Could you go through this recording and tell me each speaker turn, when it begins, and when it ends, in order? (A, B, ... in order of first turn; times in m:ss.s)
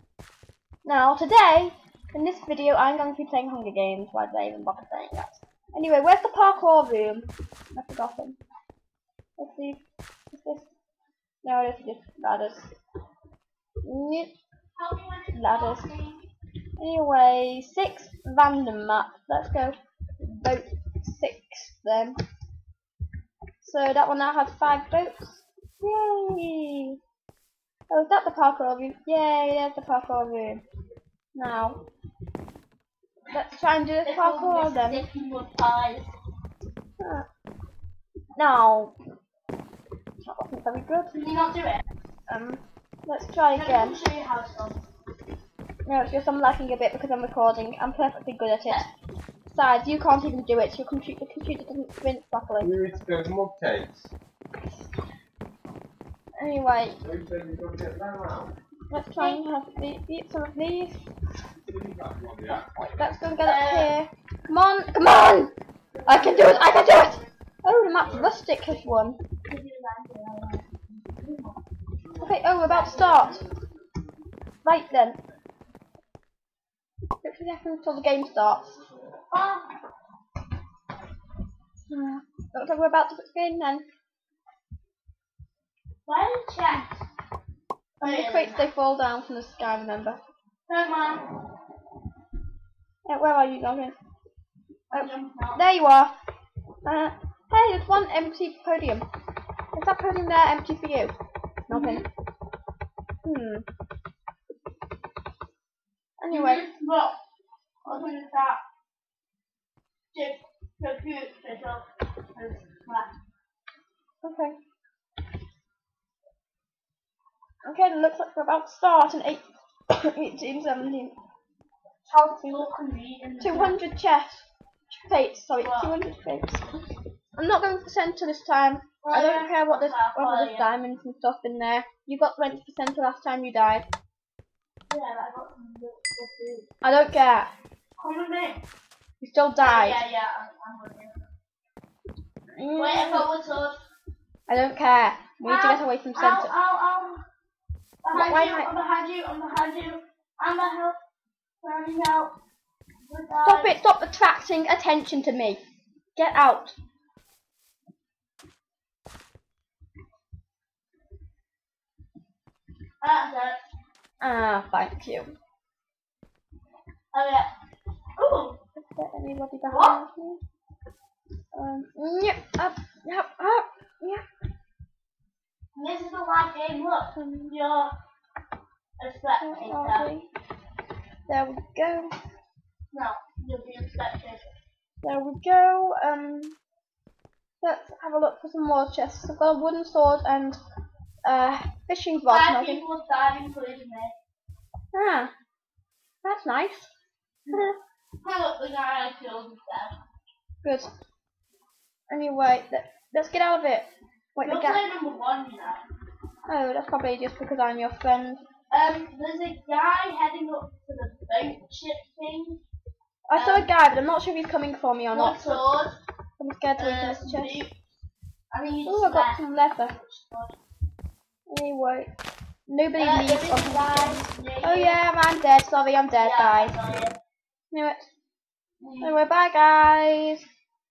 0:00.8-0:08.4 A
0:09.4-0:10.7 A
0:11.4-0:12.7 A
0:13.8-0:14.3 A
0:14.8-0:16.2 B
0:15.3-0:15.9 A
0:16.8-0:22.2 A
0:23.6-0:27.0 A
0:27.9-0:30.6 A
0:31.3-0:31.8 A
0:33.3-0:35.0 A
0:34.0-0:36.1 B
0:37.0-0:37.2 A
0:38.4-0:38.9 A
0:40.2-0:41.1 A
0:41.1-0:41.8 B
0:42.3-0:44.0 A
0:43.5-0:44.8 B
0:45.8-0:48.8 A
0:49.5-0:52.7 A
0:52.6-0:54.1 C
0:56.4-0:57.0 A
0:57.0-0:58.6 C
0:58.9-1:01.0 A
1:01.5-1:02.6 C
1:02.6-1:05.5 A
1:03.4-1:03.9 B
1:06.0-1:07.2 B
1:06.0-1:09.2 A
1:08.0-1:08.3 C
1:09.5-1:11.6 B
1:12.2-1:13.4 A
1:12.6-1:13.4 B
1:14.6-1:15.2 A
1:17.2-1:18.8 A
1:19.3-1:19.7 B
1:21.9-1:23.8 A
1:26.0-1:27.0 B
1:28.0-1:28.7 B
1:28.0-1:30.2 A
1:30.7-1:31.3 B
1:33.0-1:34.0 A
1:34.9-1:35.6 B
1:34.9-1:36.1 A
1:36.8-1:39.0 A
1:39.7-1:41.1 A
1:41.7-1:42.1 A
1:41.7-1:42.0 B
1:43.2-1:43.6 A
1:46.2-1:46.6 A
1:46.3-1:47.2 B
1:47.8-1:48.6 B
1:50.1-1:53.1 B
1:54.2-1:54.6 A
1:57.6-2:01.1 A
2:02.1-2:03.8 B
2:02.3-2:02.7 A
2:03.4-2:06.7 A
2:05.6-2:05.9 B
2:07.3-2:13.8 A
2:09.0-2:10.7 B
2:14.9-2:16.7 B
2:16.8-2:17.5 A
2:18.0-2:18.6 B
2:19.2-2:20.0 A
2:19.6-2:21.2 B
2:22.5-2:23.3 A
2:22.8-2:23.8 B
2:24.5-2:26.5 A
2:25.4-2:27.2 B
2:28.0-2:31.0 B
2:28.1-2:28.7 A
2:31.6-2:32.3 B
2:33.1-2:33.7 B
2:33.4-2:35.6 A
2:36.2-2:36.8 A
2:43.0-2:43.6 B
2:44.2-2:45.3 A
2:47.1-2:47.5 B
2:48.2-2:48.6 B
2:48.8-2:50.4 A
2:49.7-2:50.0 B
2:51.5-2:54.2 A
2:55.7-2:57.9 B
2:57.1-2:57.5 A
2:59.0-3:00.1 B
2:59.4-3:00.2 A
3:01.3-3:02.1 A
3:02.9-3:04.5 B
3:05.0-3:06.6 A
3:07.6-3:10.6 A
3:11.2-3:12.8 A
3:12.3-3:14.1 B
3:14.9-3:15.3 A
3:16.2-3:16.9 A
3:17.4-3:20.0 B
3:20.6-3:20.9 A
3:22.1-3:24.8 A
3:24.4-3:25.8 B
3:26.5-3:28.4 A
3:28.7-3:32.6 B
3:33.3-3:35.6 A
3:33.4-3:33.7 B
3:35.1-3:36.0 B
3:36.4-3:37.6 A
3:36.8-3:37.7 B
3:38.5-3:40.5 B
3:38.8-3:39.9 A
3:41.5-3:42.1 A
3:42.7-3:46.8 A
3:43.0-3:45.0 B
3:46.2-3:47.2 B
3:47.7-3:48.1 A
3:48.8-3:49.2 B
3:49.0-3:50.4 A